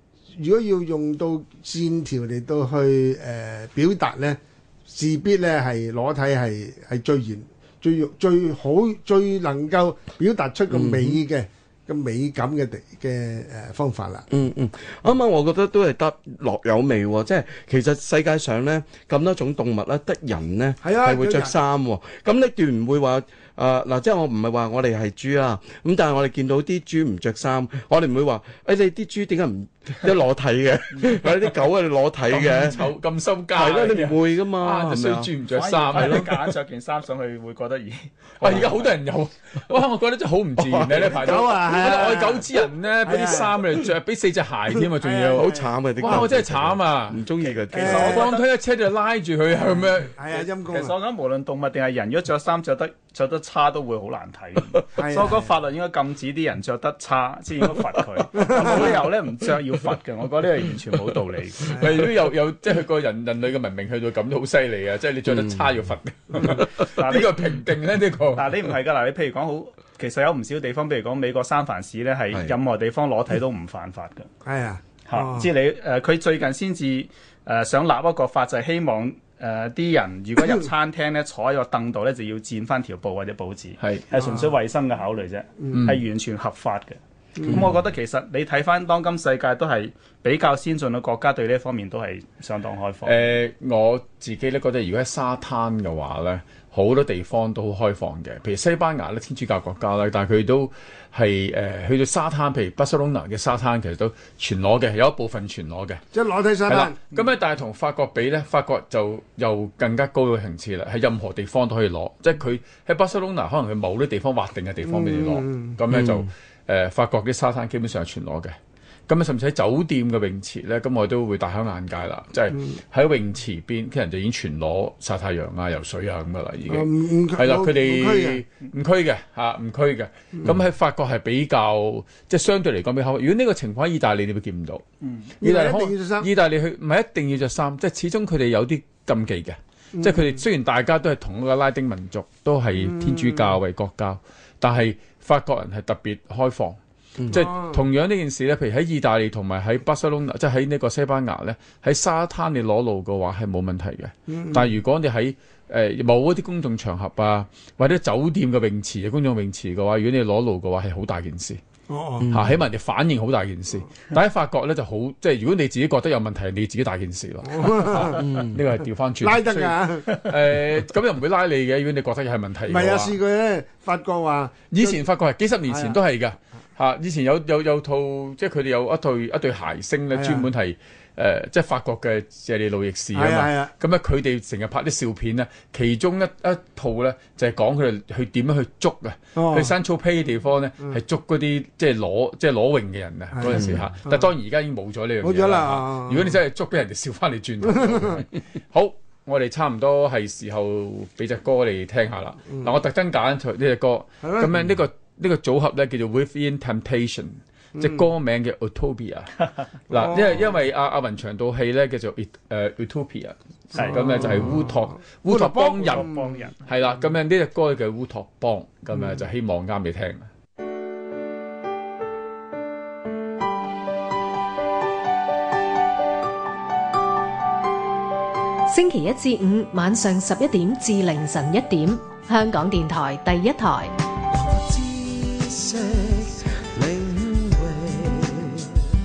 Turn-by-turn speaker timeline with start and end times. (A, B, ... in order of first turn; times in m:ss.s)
0:00.4-0:14.2 A
0:10.7-0:11.2 B
0:14.3-0:32.9 B
0:20.8-0:21.5 A
0:32.3-0:36.3 C
0:33.5-0:35.3 B
0:35.5-0:38.8 D
0:35.9-0:36.3 B
0:38.4-0:47.2 C
0:38.4-0:38.7 B
0:40.6-0:41.3 B
0:41.0-0:42.5 A
0:43.0-0:43.5 A
0:45.0-0:46.2 A
0:45.3-0:48.3 B
0:47.4-0:48.4 D
0:47.7-0:48.3 A
0:47.8-0:50.2 C
0:50.2-0:50.9 A
0:50.3-1:02.0 D
0:55.0-0:55.5 A
0:58.3-0:59.0 A
1:01.7-1:08.5 C
1:01.7-1:02.0 A
1:05.2-1:05.7 B
1:06.8-1:07.4 D
1:08.4-1:14.3 D
1:14.4-1:15.5 A
1:15.1-1:33.2 D
1:23.8-1:24.0 C
1:24.1-1:24.5 A
1:25.7-1:26.0 C
1:27.4-1:27.6 A
1:33.0-1:46.0 C
1:46.1-1:47.0 A
1:46.7-1:58.5 C
1:54.8-1:55.8 A
1:55.9-1:56.3 B
1:59.1-2:14.8 C
2:06.7-2:08.4 A
2:15.0-2:15.3 D
2:15.4-2:16.3 A
2:15.4-2:41.6 C
2:20.0-2:20.4 A
2:22.8-2:23.5 A
2:27.3-2:27.8 A
2:34.3-2:34.7 A
2:41.9-2:42.3 A
2:42.2-2:42.6 B
2:42.3-2:53.2 C
2:47.4-2:48.2 A
2:48.1-2:48.6 B
2:49.2-2:50.3 A
2:52.7-2:55.0 A
2:54.7-3:29.3 C
2:55.7-2:56.0 A
3:00.1-3:00.5 A
3:03.1-3:03.7 A
3:09.4-3:09.7 A
3:13.3-3:14.3 A
3:13.5-3:13.8 B
3:15.2-3:16.4 A
3:17.8-3:18.2 A
3:24.2-3:24.5 A
3:27.8-3:28.1 A
3:29.9-3:36.1 C
3:29.9-3:30.5 A
3:33.8-3:34.1 D
3:33.8-3:36.4 A
3:35.8-3:36.6 D
3:36.6-3:40.3 C
3:48.7-3:53.9 E
3:54.3-3:58.7 F